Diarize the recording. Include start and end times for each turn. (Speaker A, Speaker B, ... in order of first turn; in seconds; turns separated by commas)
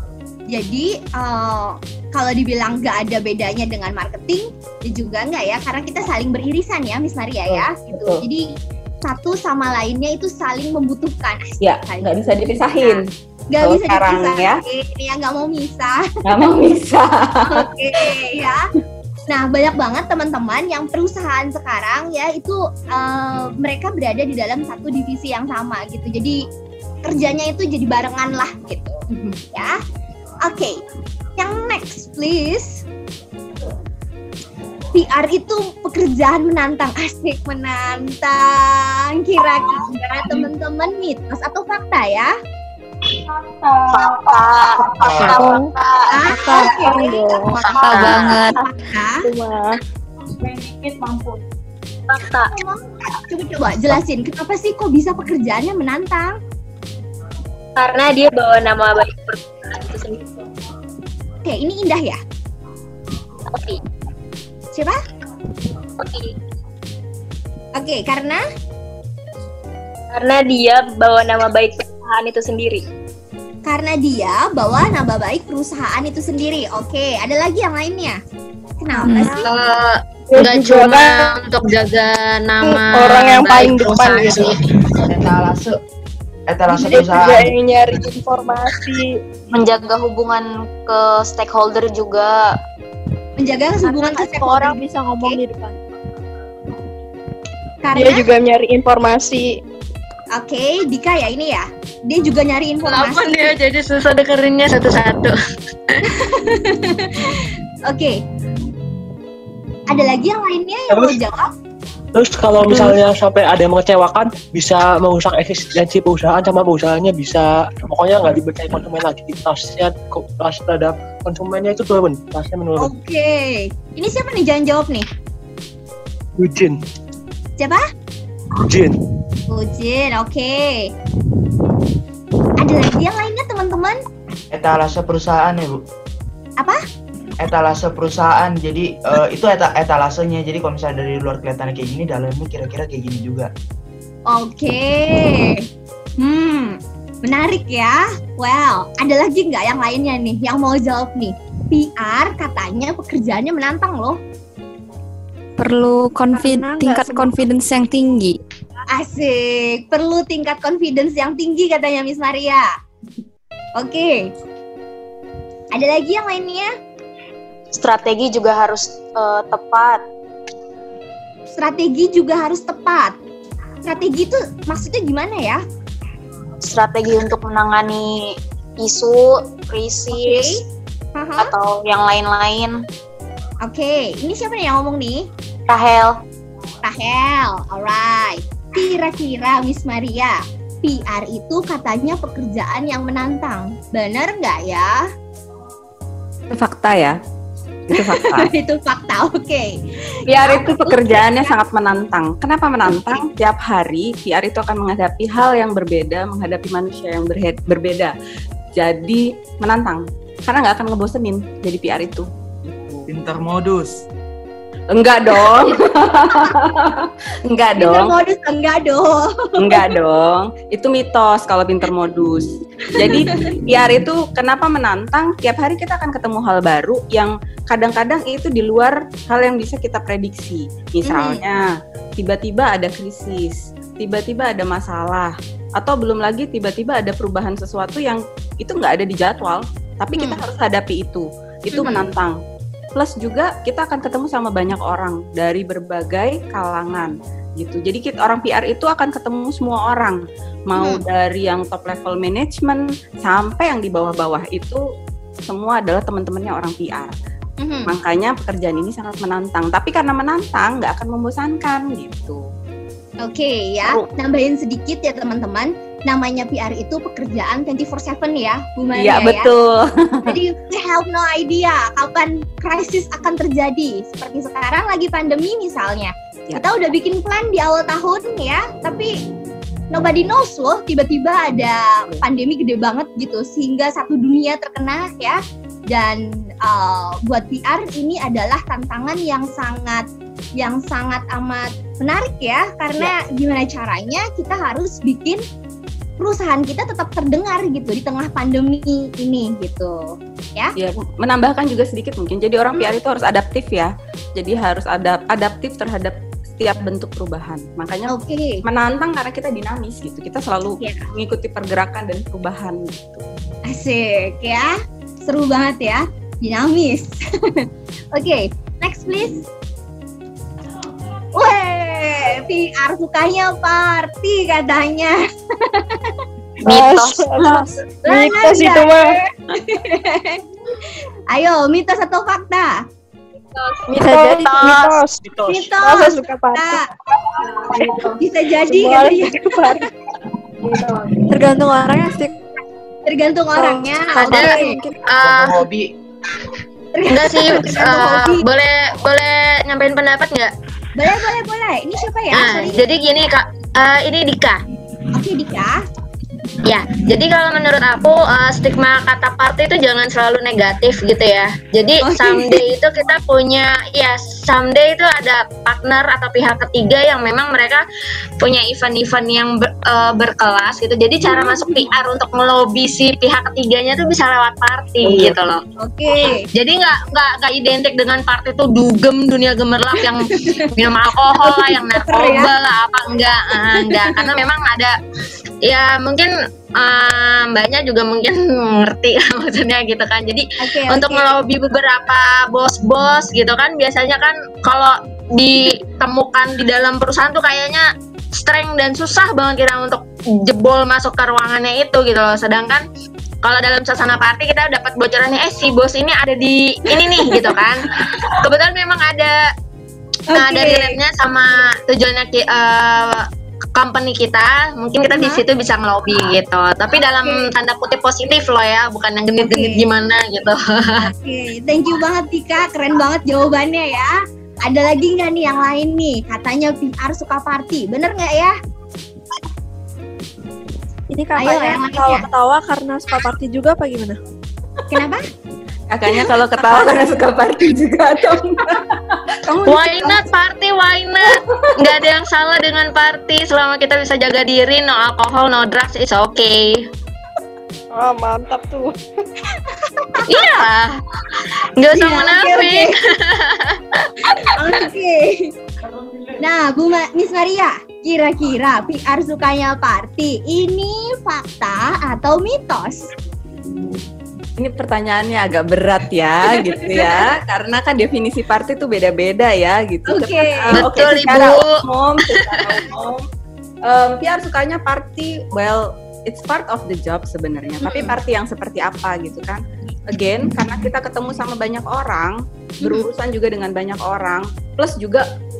Speaker A: 0.5-8.5, Speaker B: 7.5-8.2, Speaker A: 9.0-12.1, Speaker B: 11.6-13.1, Speaker A: 12.7-16.4, Speaker B: 13.6-14.6, Speaker B: 16.2-18.1, Speaker A: 17.5-18.7, Speaker A: 19.3-26.4, Speaker A: 27.0-29.0, Speaker A: 29.5-29.8, Speaker A: 30.4-30.8, Speaker A: 31.4-32.8, Speaker A: 34.9-42.3, Speaker C: 43.9-48.5, Speaker D: 44.9-45.4, Speaker E: 45.3-45.7, Speaker A: 46.1-47.1, Speaker E: 46.3-47.6, Speaker F: 47.6-48.2, Speaker G: 47.7-48.6, Speaker A: 47.9-49.2, Speaker E: 49.2-49.8, Speaker C: 50.5-51.3, Speaker C: 52.1-52.5, Speaker A: 52.2-56.4, Speaker C: 57.8-60.2, Speaker A: 61.4-62.2, Speaker A: 64.7-65.0, Speaker A: 67.8-68.4, Speaker C: 70.1-72.8, Speaker A: 73.7-78.2, Speaker A: 78.8-79.5, Speaker F: 79.2-84.6, Speaker E: 80.3-81.3, Speaker E: 82.6-84.5, Speaker D: 85.0-85.7, Speaker D: 86.5-87.5, Speaker E: 86.7-89.2, Speaker C: 89.5-92.5, Speaker A: 93.4-95.4, Speaker C: 93.8-95.7, Speaker A: 97.8-98.3, Speaker E: 97.9-99.5, Speaker A: 100.3-103.5, Speaker F: 102.8-105.3, Speaker A: 106.1-108.2, Speaker A: 109.9-111.5, Speaker H: 110.9-111.2, Speaker H: 112.1-122.9, Speaker A: 122.8-125.0, Speaker H: 126.4-126.8, Speaker A: 127.6-127.8, Speaker H: 128.6-128.9, Speaker A: 129.5-130.9, Speaker A: 132.6-134.0, Speaker D: 134.5-135.8, Speaker D: 137.4-143.5, Speaker A: 144.3-145.6, Speaker A: 146.2-154.2, Speaker G: 155.6-158.4, Speaker A: 158.9-162.7, Speaker A: 163.8-164.3, Speaker A: 165.7-166.7, Speaker C: 167.8-170.0, Speaker A: 171.6-173.1, Speaker A: 173.8-175.6, Speaker C: 176.6-180.6, Speaker A: 180.1-180.6, Speaker A: 181.2-181.5, Speaker C: 181.4-182.8, Speaker A: 183.6-185.3, Speaker C: 185.7-186.1, Speaker A: 186.8-195.0, Speaker B: 196.5-197.2, Speaker B: 197.9-198.5, Speaker A: 197.9-199.7, Speaker B: 200.3-208.1, Speaker A: 200.3-201.5, Speaker A: 202.9-203.2, Speaker B: 208.8-213.1, Speaker D: 213.1-214.0, Speaker B: 214.9-218.1, Speaker A: 217.8-219.9, Speaker B: 219.6-231.6, Speaker A: 222.9-223.5, Speaker A: 231.1-231.4, Speaker B: 232.2-242.4, Speaker A: 240.2-240.4, Speaker A: 241.7-242.1, Speaker B: 243.0-254.8, Speaker B: 255.5-257.1, Speaker A: 257.6-257.9, Speaker B: 257.9-262.4, Speaker A: 263.2-269.5, Speaker B: 268.9-270.3, Speaker A: 270.3-279.1, Speaker A: 279.9-290.0, Speaker A: 290.6-295.4, Speaker A: 296.2-300.7, Speaker B: 300.8-308.1, Speaker A: 308.1-308.6, Speaker B: 308.6-313.2, Speaker A: 310.8-311.0, Speaker A: 313.7-319.4, Speaker A: 321.3-326.2, Speaker E: 326.6-329.1, Speaker A: 328.0-332.8, Speaker E: 333.9-336.8, Speaker C: 333.9-335.0, Speaker H: 335.2-335.7, Speaker A: 335.4-336.8, Speaker E: 337.5-339.9, Speaker A: 338.1-339.7, Speaker E: 340.6-341.1, Speaker A: 343.1-344.8, Speaker F: 344.1-345.6, Speaker D: 345.1-345.9, Speaker A: 346.9-348.4, Speaker F: 347.1-350.5, Speaker A: 350.9-352.8, Speaker F: 352.3-354.6, Speaker A: 355.1-355.8, Speaker F: 356.6-367.8, Speaker A: 362.0-362.6, Speaker F: 368.4-375.6, Speaker A: 371.2-371.9, Speaker A: 375.8-376.4, Speaker F: 376.5-384.9, Speaker A: 380.0-380.7, Speaker A: 381.4-382.5, Speaker A: 383.6-384.3, Speaker F: 385.6-402.8, Speaker A: 390.6-391.3, Speaker F: 403.4-409.4, Speaker A: 407.2-407.6, Speaker A: 410.3-411.0, Speaker F: 410.3-421.1, Speaker A: 415.1-415.4, Speaker A: 417.2-417.5, Speaker A: 419.4-419.9, Speaker A: 421.0-424.1, Speaker A: 424.6-428.5, Speaker A: 431.4-432.3, Speaker A: 434.9-435.2, Speaker B: 435.9-440.3, Speaker A: 436.1-436.9, Speaker F: 439.6-446.8, Speaker B: 441.3-441.7, Speaker E: 447.9-448.9, Speaker A: 449.7-450.6, Speaker F: 450.3-454.5, Speaker A: 451.9-453.0, Speaker A: 454.5-455.5, Speaker A: 456.4-463.1, Speaker B: 464.6-473.3, Speaker A: 466.7-467.0, Speaker A: 470.1-470.8, Speaker F: 470.8-471.8, Speaker F: 472.3-472.6, Speaker B: 473.8-485.2, Speaker A: 477.8-478.1, Speaker A: 482.8-483.1